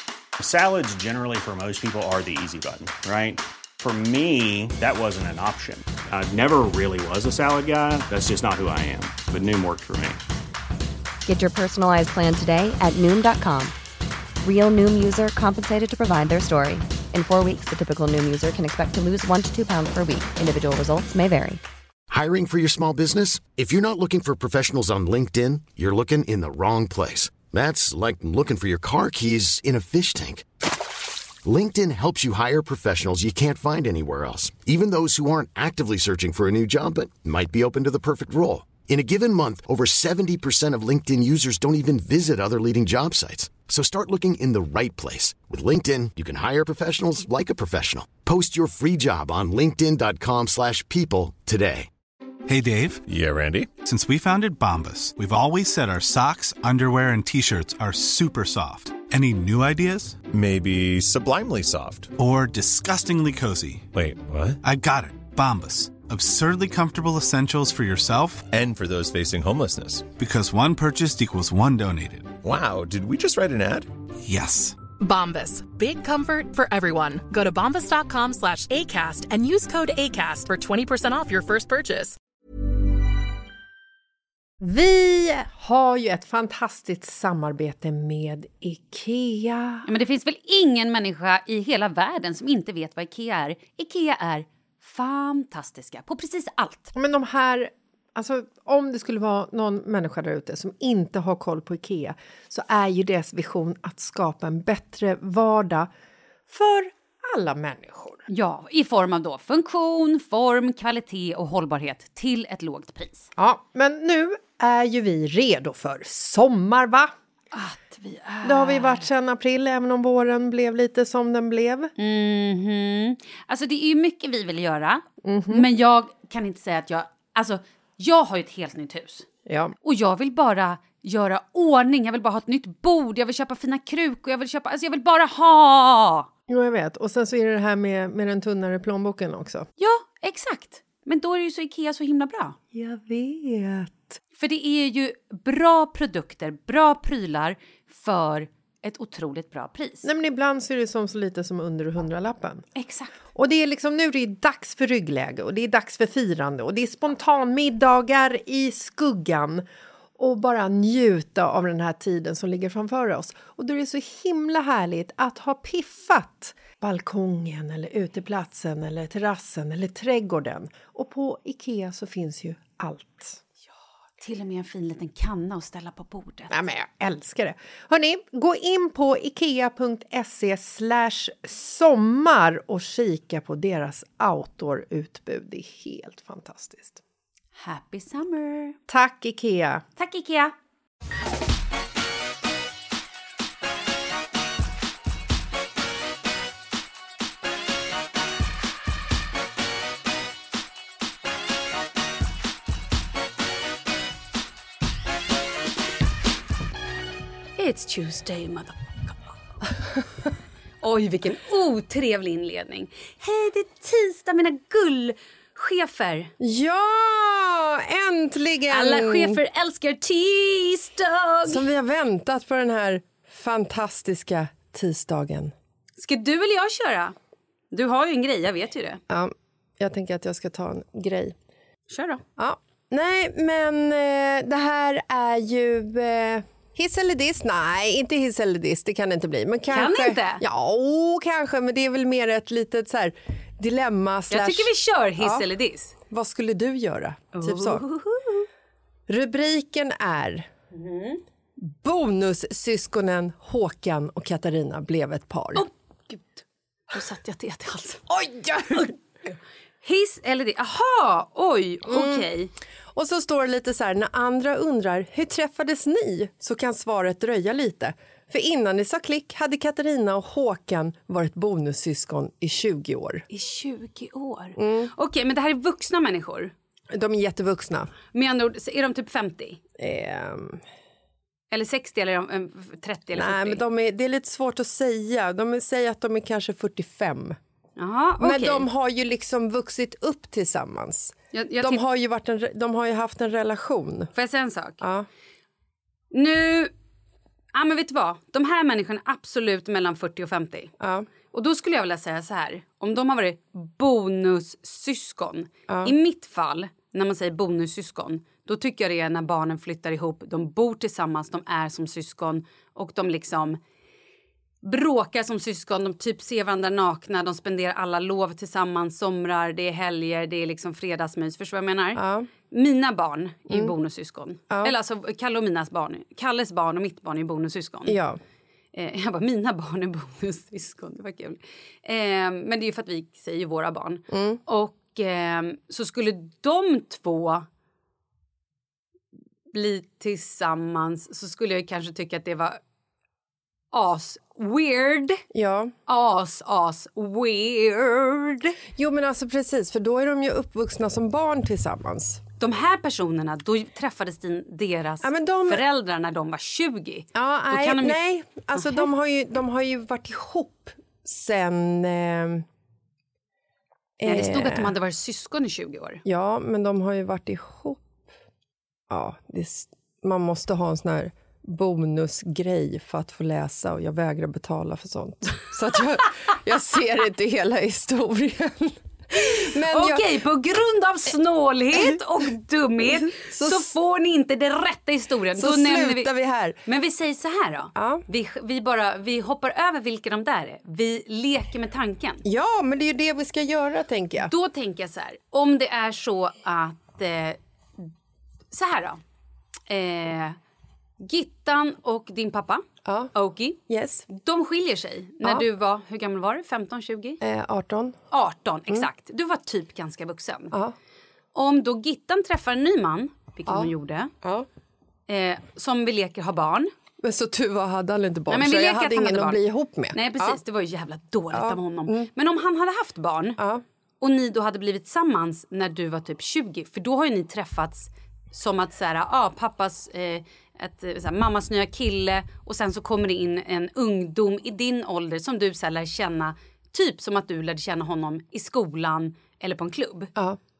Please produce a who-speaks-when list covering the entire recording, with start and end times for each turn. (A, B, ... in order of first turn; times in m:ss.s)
0:00.4-0:03.0 A
0:03.9-0:04.2 A
0:04.9-0:05.2 A
0:07.1-0:08.2 A
0:11.2-0:13.7 B
0:14.4-0:21.6 B
0:22.1-0:30.4 C
0:31.4-0:51.9 C
0:52.5-0:53.0 D
0:53.0-0:53.7 E
0:53.8-1:00.2 D
1:00.3-1:02.1 E
1:02.2-1:03.9 D
1:03.9-1:04.6 E
1:04.6-1:08.4 D
1:08.5-1:10.1 E
1:10.2-1:12.3 D
1:12.4-1:13.9 E
1:14.2-1:14.8 D
1:15.0-1:22.2 F
1:24.6-1:29.9 G
1:29.8-1:36.9 H
1:36.9-1:45.9 G
1:46.5-1:48.2 G
1:48.3-1:53.3 H
1:53.4-1:57.1 G
1:57.5-1:59.1 H
1:58.4-2:01.9 G
2:02.0-2:09.3 H
2:05.2-2:05.7 G
2:09.4-2:09.7 G
2:09.8-2:16.3 H
2:16.5-2:19.6 G
2:19.8-2:22.6 H
2:22.7-2:24.2 G
2:24.4-2:30.1 H
2:30.0-2:32.6 G
2:32.8-2:33.1 H
2:33.3-2:39.6 G
2:40.2-2:53.4 G
2:54.2-2:56.5 H
2:56.5-3:07.0 G
3:07.5-3:08.8 H
3:08.9-3:09.8 G
3:10.0-3:10.5 H
3:27.6-3:29.3 H
3:30.8-3:36.3 H
3:36.4-3:39.4 G
3:38.7-3:41.6 H
3:41.4-3:45.5 G
3:46.0-3:47.1 H
3:47.7-3:49.0 H
3:49.1-3:51.3 G
3:51.9-3:52.2 H
3:52.4-4:05.5 G
3:59.7-4:00.4 H
4:04.3-4:05.9 H
4:06.1-4:07.8 G
4:07.3-4:08.5 H
4:09.1-4:10.5 G
4:10.7-4:11.2 H
4:11.6-4:15.7 G
4:15.5-4:18.0 H
4:18.1-4:18.9 G
4:19.8-4:22.5 H
4:21.9-4:22.3 G
4:22.9-4:33.2 G
4:33.3-4:36.5 H
4:34.6-4:34.9 G
4:36.9-4:37.9 G
4:38.1-4:39.6 H
4:39.8-4:40.6 G
4:41.5-4:43.6 H
4:43.1-4:47.4 G
4:47.8-4:48.7 H
4:48.2-4:54.1 G
4:51.3-4:51.8 H
4:54.1-4:54.8 H
4:54.8-4:55.1 G
4:56.1-4:56.7 H
4:57.5-5:00.7 H
5:00.8-5:01.1 G
5:01.3-5:13.6 H
5:05.7-5:05.9 G
5:14.6-5:28.0 H
5:21.9-5:22.3 G
5:27.8-5:28.2 G
5:28.7-5:37.4 H
5:34.1-5:34.4 G
5:39.5-5:42.6 H
5:43.7-5:45.2 H
5:45.3-5:45.7 G
5:45.9-5:48.6 H
5:48.7-5:52.2 G
5:52.4-5:58.0 H
5:55.0-5:55.6 G
5:57.1-6:02.4 G
5:58.5-5:58.9 H
6:04.0-6:04.7 G
6:04.0-6:06.0 H
6:06.0-6:07.9 G
6:08.9-6:20.1 G
6:19.2-6:26.1 H
6:21.7-6:22.0 G
6:22.8-6:23.7 G
6:25.3-6:26.6 G
6:26.6-6:32.2 H
6:27.7-6:28.0 G
6:32.2-6:34.3 G
6:34.2-6:37.9 H
6:38.5-6:39.0 H
6:39.7-6:40.4 H
6:41.0-6:47.2 H
6:42.8-6:43.1 G
6:43.7-6:44.1 G
6:47.2-6:48.0 G
6:48.1-6:50.5 H
6:51.3-6:54.1 H
6:53.5-6:54.5 G
6:55.1-6:56.7 H
6:57.0-7:00.4 G
6:58.3-6:59.4 H
6:59.9-7:03.4 H
7:01.3-7:02.1 G
7:03.4-7:03.6 G
7:04.0-7:20.1 H